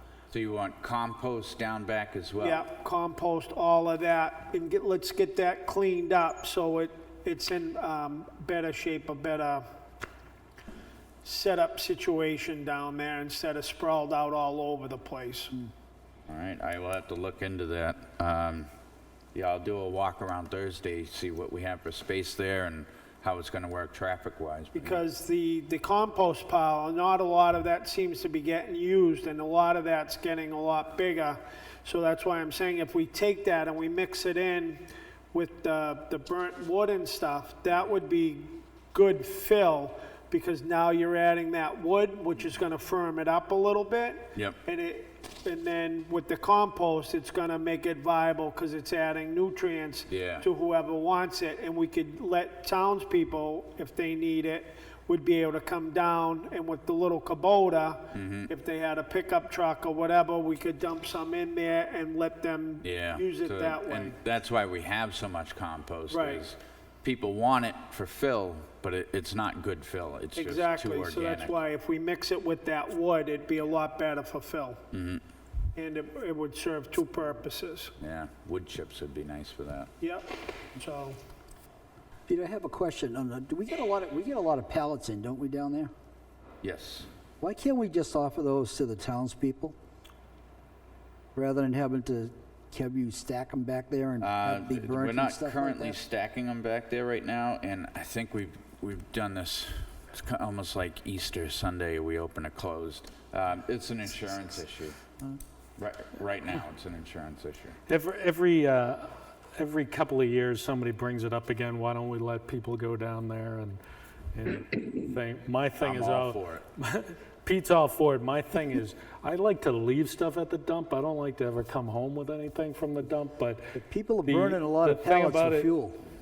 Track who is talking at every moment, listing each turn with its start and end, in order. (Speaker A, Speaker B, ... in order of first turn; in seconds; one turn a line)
Speaker A: 0.3-2.6
Speaker B: 2.4-9.6
Speaker B: 11.2-15.5
Speaker A: 16.3-18.7
Speaker A: 19.3-25.0
Speaker B: 24.7-64.2
Speaker A: 50.1-50.5
Speaker A: 58.1-58.5
Speaker A: 62.8-71.6
Speaker B: 66.1-66.4
Speaker B: 70.3-74.8
Speaker A: 74.9-75.2
Speaker B: 75.8-77.9
Speaker A: 78.0-79.9
Speaker B: 80.0-81.2
Speaker C: 82.3-85.9
Speaker A: 86.6-87.1
Speaker C: 87.4-89.7
Speaker C: 91.3-96.0
Speaker A: 94.2-104.9
Speaker A: 105.8-107.8
Speaker D: 107.9-113.8
Speaker D: 114.3-123.7
Speaker A: 115.8-116.6
Speaker C: 123.7-126.0
Speaker D: 124.2-125.7